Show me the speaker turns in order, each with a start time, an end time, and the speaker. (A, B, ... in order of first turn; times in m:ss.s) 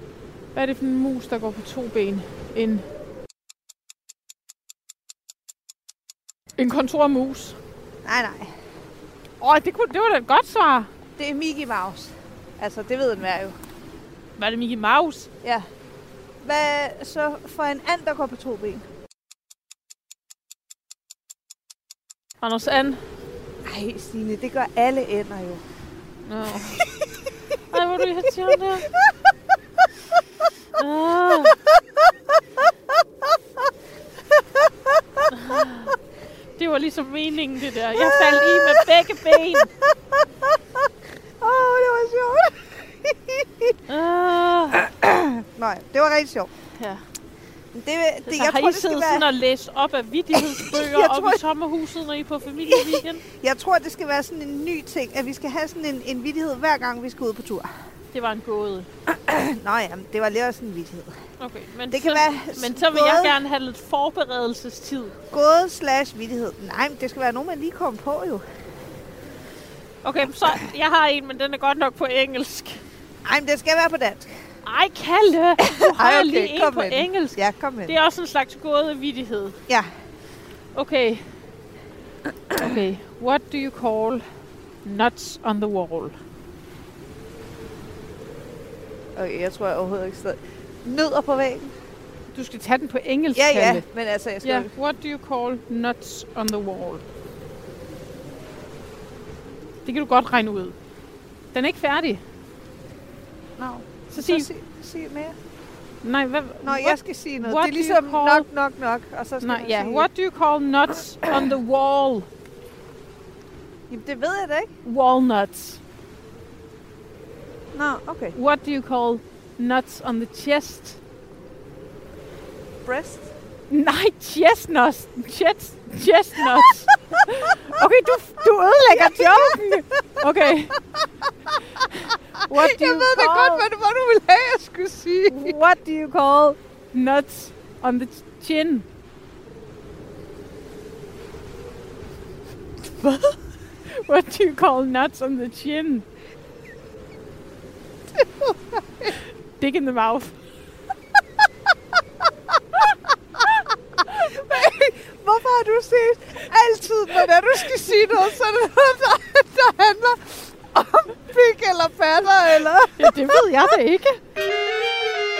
0:00.5-0:02.8 A
0:06.6-0:07.6 A
0:08.0-0:08.5 B
0:09.4-0:10.9 A
0:11.2-0:13.5 B
0:14.4-0:15.3 A
0:16.4-0:18.8 B
0:22.4-0:23.0 A
0:23.7-0:25.6 B
0:26.2-0:26.8 A
0:27.7-0:28.9 A
0:30.8-0:31.6 A
0:35.3-0:35.9 A
0:36.6-0:39.7 A
0:38.0-0:38.8 B
0:41.4-0:43.7 B
0:43.9-0:44.9 A
0:44.9-0:46.5 B
0:46.8-0:47.0 A
0:47.7-0:49.2 B
0:48.2-0:53.2 A
0:50.8-0:51.4 B
0:52.7-0:57.7 B
0:58.1-0:58.9 A
0:59.1-1:01.1 B
1:01.4-1:05.2 A
1:01.9-1:03.4 B
1:05.3-1:08.4 B
1:10.0-1:12.8 A
1:13.2-1:14.3 B
1:14.6-1:19.6 A
1:15.6-1:17.9 B
1:20.7-1:21.3 A
1:22.6-1:24.2 A
1:24.8-1:26.2 A
1:29.2-1:31.7 B
1:32.3-1:33.8 A
1:33.3-1:34.7 B
1:34.4-1:37.0 A
1:39.8-1:40.7 A
1:41.5-1:42.2 A
1:43.6-1:45.3 B
1:44.1-1:44.5 A
1:46.0-1:48.5 A
1:46.6-1:50.1 B
1:49.4-1:52.3 A
1:53.9-1:54.7 B
1:54.8-1:55.8 A
1:57.7-1:58.3 B
1:58.3-2:01.0 A
2:02.8-2:03.2 B
2:03.7-2:10.8 A
2:09.0-2:09.6 B
2:12.5-2:13.7 A
2:12.5-2:15.6 B
2:15.3-2:18.8 A
2:23.0-2:23.3 A
2:23.9-2:26.0 A
2:29.6-2:30.3 A
2:34.2-2:43.4 B
2:43.0-2:44.2 A